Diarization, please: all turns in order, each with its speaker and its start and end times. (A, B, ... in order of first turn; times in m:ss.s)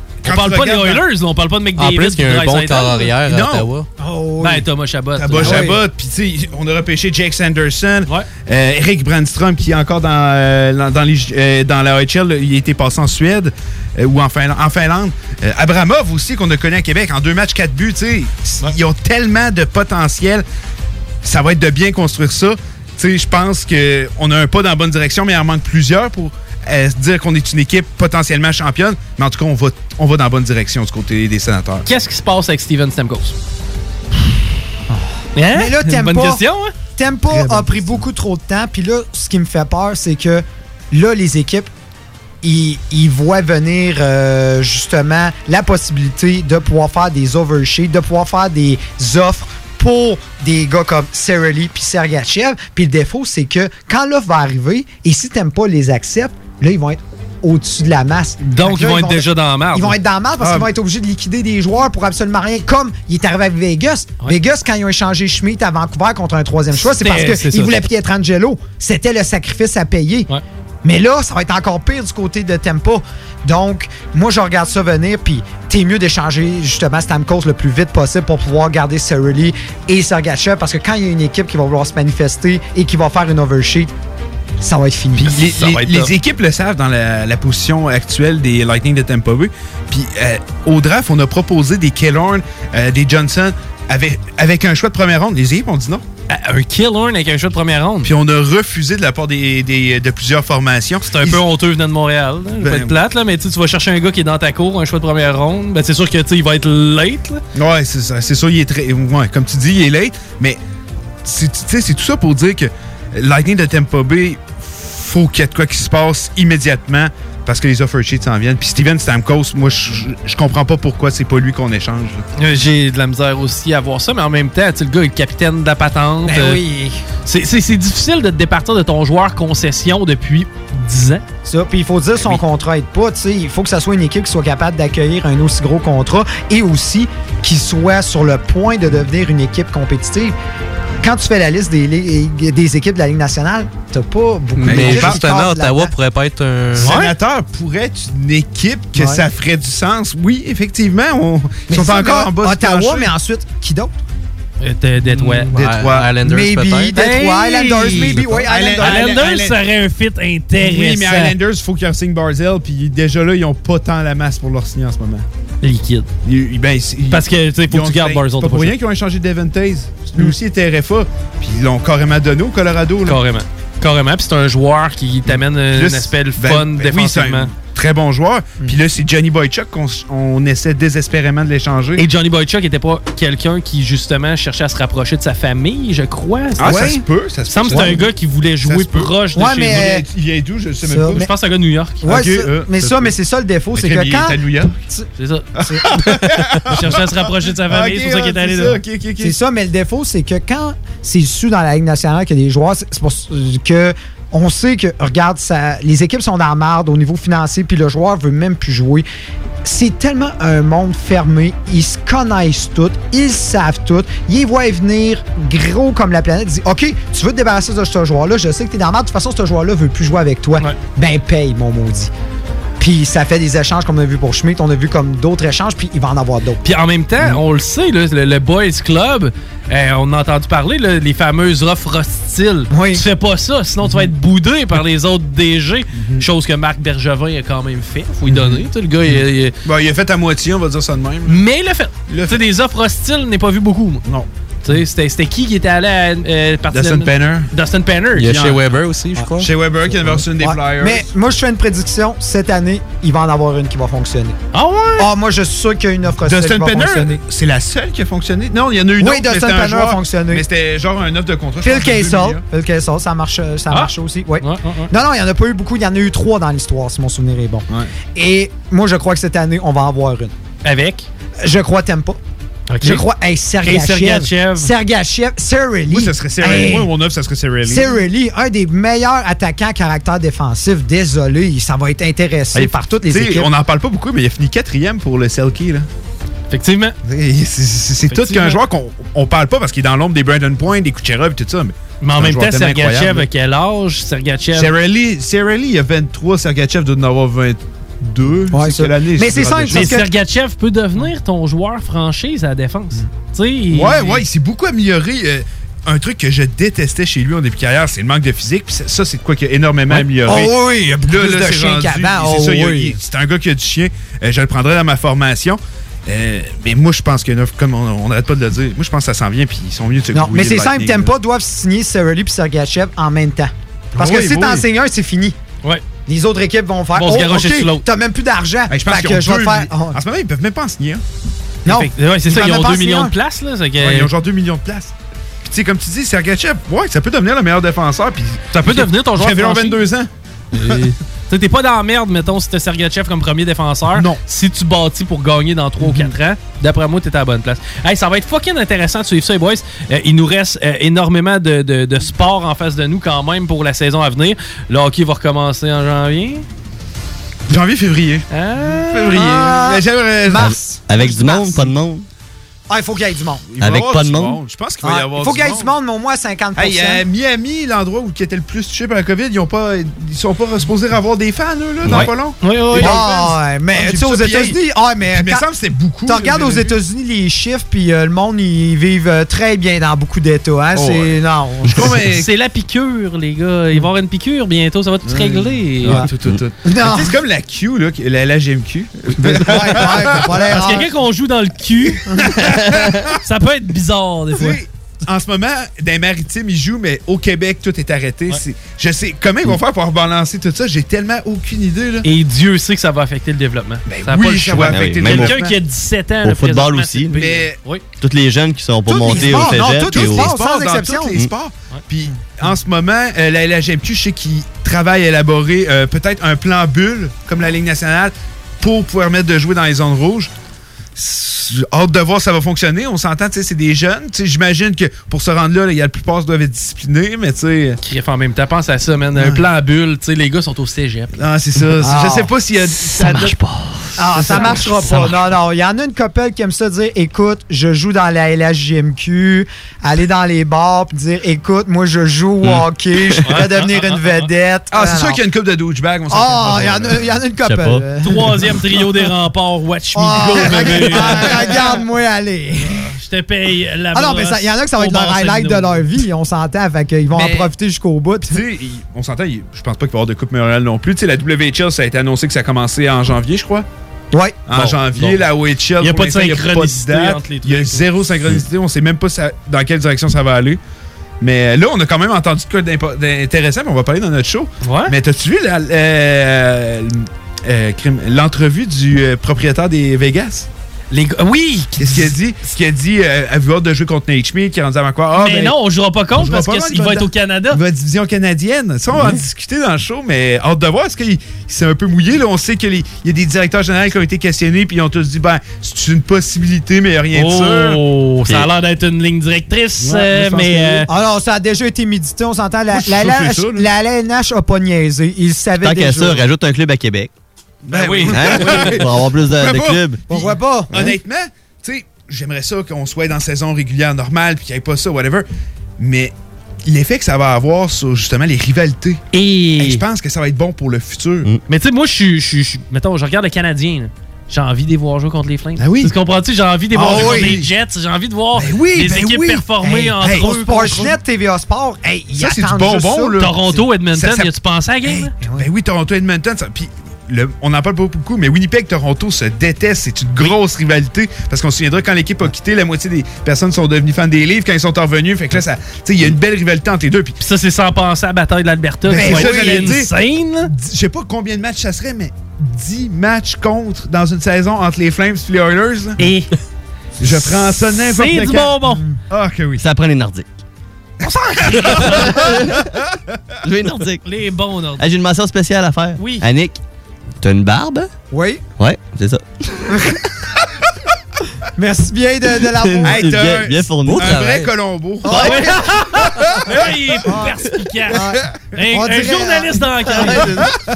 0:00.2-0:01.0 A
0:00.2-0:03.1 B
0:01.8-0:03.9 C
0:03.2-0:03.7 A
0:04.0-0:04.7 D
0:04.4-0:05.8 B
0:05.2-0:20.4 A
0:05.4-0:05.8 D
0:21.2-0:31.8 A
0:31.9-0:33.4 B
0:34.9-0:36.4 D
0:35.4-0:36.7 B
0:37.0-0:41.7 D
0:37.4-0:38.0 A
0:42.4-1:10.3 D
0:58.5-1:00.0 B
1:00.4-1:00.7 A
1:06.8-1:07.8 B
1:10.8-1:23.9 D
1:24.6-1:26.1 D
1:25.2-1:36.0 A
1:36.3-1:38.1 B
1:38.0-1:41.4 A
1:41.1-1:47.4 B
1:42.6-1:42.9 A
1:47.6-1:50.6 A
1:51.2-2:02.2 A
2:02.4-2:06.6 B
2:06.2-2:07.0 D
2:07.3-2:11.2 B
2:11.5-2:20.4 D
2:21.0-2:25.9 D
2:24.6-2:27.0 C
2:24.6-2:25.2 A
2:26.8-2:33.1 A
2:26.8-2:27.1 B
2:29.0-2:29.2 D
2:31.7-2:34.0 D
2:34.6-2:35.5 B
2:35.1-2:36.1 A
2:35.2-2:37.0 C
2:36.2-2:39.2 D
2:37.0-2:41.4 B
2:38.5-2:39.6 A
2:40.6-2:45.2 A
2:45.6-2:46.1 B
2:46.2-2:53.2 A
2:47.1-2:48.8 B
2:53.1-2:57.5 B
2:55.3-3:02.0 A
3:02.0-3:06.9 B
3:06.6-3:07.0 D
3:06.6-3:08.1 A
3:07.5-3:09.9 B
3:07.7-3:08.0 D
3:08.6-3:09.1 A
3:09.4-3:10.0 D
3:09.6-3:11.3 A
3:10.8-3:11.3 D
3:11.1-3:12.0 B
3:12.0-3:15.1 D
3:12.0-3:13.1 A
3:13.8-3:14.7 A
3:15.2-3:15.5 B
3:15.6-3:19.4 A
3:15.6-3:15.9 D
3:16.7-3:18.8 B
3:19.2-3:29.1 D
3:29.6-3:42.1 D
3:42.8-3:46.6 D
3:46.6-3:59.6 B
3:52.7-3:53.0 D
3:53.8-3:54.1 A
3:56.0-3:56.2 A
3:58.3-4:01.4 A
4:01.3-4:04.0 B
4:02.1-4:02.4 A
4:04.6-4:08.4 B
4:06.7-4:07.5 A
4:08.2-4:08.6 A
4:08.2-4:09.5 C
4:09.4-4:11.1 A
4:10.4-4:14.4 D
4:14.5-4:15.1 B
4:15.0-4:17.2 D
4:16.3-4:22.4 A
4:19.0-4:20.4 D
4:21.6-4:30.3 D
4:23.7-4:24.9 B
4:30.6-4:31.1 B
4:31.4-4:32.2 D
4:32.7-4:33.0 B
4:32.8-4:36.9 D
4:33.6-4:34.7 B
4:35.9-4:37.9 A
4:37.6-4:43.5 D
4:42.5-4:45.9 A
4:46.5-4:47.0 B
4:47.0-4:53.3 A
4:48.1-4:48.6 B
4:52.0-4:54.7 B
4:54.5-4:59.9 A
4:58.5-5:00.1 D
4:59.7-5:04.2 B
5:03.7-5:10.5 A
5:09.9-5:12.9 D
5:11.1-5:21.2 A
5:20.1-5:25.4 D
5:24.0-5:24.6 A
5:26.1-5:30.0 D
5:27.0-5:27.9 B
5:28.7-5:31.0 A
5:31.6-5:33.1 D
5:31.6-5:34.1 B
5:33.8-5:34.9 A
5:35.4-5:40.1 A
5:38.5-5:39.8 B
5:40.6-5:56.4 B
5:43.9-5:44.2 A
5:45.8-5:46.1 A
5:57.5-6:00.5 A
5:58.3-5:59.6 B
5:59.3-6:01.7 D
6:00.4-6:02.1 E
6:02.7-6:03.4 D
6:03.5-6:05.7 A
6:03.6-6:04.4 E
6:04.8-6:07.0 D
6:06.6-6:14.6 A
6:11.8-6:12.1 E
6:11.9-6:13.0 B
6:12.8-6:15.4 D
6:15.1-6:16.7 A
6:16.1-6:22.0 D
6:20.8-6:21.1 A
6:21.6-6:22.3 A
6:22.0-6:26.1 B
6:25.1-6:30.3 A
6:26.6-6:27.2 D
6:29.2-6:30.9 D
6:29.6-6:29.9 B
6:30.5-6:32.4 B
6:32.2-6:33.1 A
6:33.2-6:34.6 B
6:34.4-6:42.1 A
6:42.0-6:47.8 B
6:43.9-6:45.5 A
6:44.6-6:45.4 E
6:46.2-6:47.2 E
6:47.1-6:47.6 A
6:48.0-6:50.3 E
6:48.9-7:00.3 A
6:49.0-6:51.2 D
6:52.1-6:52.5 D
7:01.0-7:07.8 A
7:07.8-7:11.1 B
7:11.2-7:13.4 A
7:11.8-7:12.3 D
7:13.0-7:13.6 B
7:14.0-7:25.2 D
7:14.2-7:15.0 A
7:14.2-7:15.0 B
7:23.3-7:24.2 B
7:24.7-7:27.0 A
7:26.1-7:28.3 D
7:27.5-7:27.8 E
7:28.0-7:31.7 B
7:29.9-7:32.9 D
7:30.4-7:31.2 A
7:33.0-7:35.8 B
7:33.9-7:38.4 D
7:38.3-7:43.7 A
7:44.1-7:44.4 D
7:44.5-7:50.6 A
7:44.6-7:45.2 B
7:45.8-7:48.3 B
7:51.2-8:00.5 A
7:54.6-7:54.9 B
8:00.9-8:02.2 B
8:01.8-8:05.6 A
8:05.2-8:07.6 B
8:06.1-8:17.8 A
8:17.1-8:20.9 B
8:20.0-8:20.8 A
8:20.3-8:26.3 D
8:22.7-8:23.7 A
8:25.6-8:27.1 E
8:27.7-8:35.3 A
8:27.7-8:28.8 D
8:28.1-8:30.0 E
8:30.1-8:30.9 D
8:35.8-8:36.1 A
8:36.6-8:39.0 A
8:39.1-8:39.8 B
8:39.6-8:41.3 A
8:41.5-8:50.8 B
8:45.6-8:45.9 A
8:46.7-8:47.5 A
8:46.8-8:47.4 D
8:48.4-8:51.0 A
8:49.6-8:53.3 D
8:52.2-8:54.3 A
8:53.2-8:55.1 B
8:54.8-9:07.2 A
8:55.2-8:55.5 D
9:07.2-9:10.5 B
9:08.9-9:09.9 A
9:09.0-9:09.5 D
9:10.4-9:16.0 A
9:16.0-9:16.3 B
9:17.0-9:18.6 A
9:17.9-9:18.9 B
9:19.1-9:19.6 A
9:19.6-9:20.3 E
9:21.5-9:22.7 E
9:21.5-9:22.1 A
9:21.6-9:22.0 B
9:23.4-9:24.0 E
9:24.0-9:24.8 B
9:24.8-9:26.6 E
9:26.0-9:26.3 B
9:27.2-9:27.9 E
9:28.1-9:28.4 D
9:28.6-9:29.3 E
9:31.6-9:33.1 D
9:32.6-9:34.5 E
9:32.8-9:36.6 A
9:35.0-9:35.8 D
9:35.1-9:40.5 B
9:37.0-9:40.5 D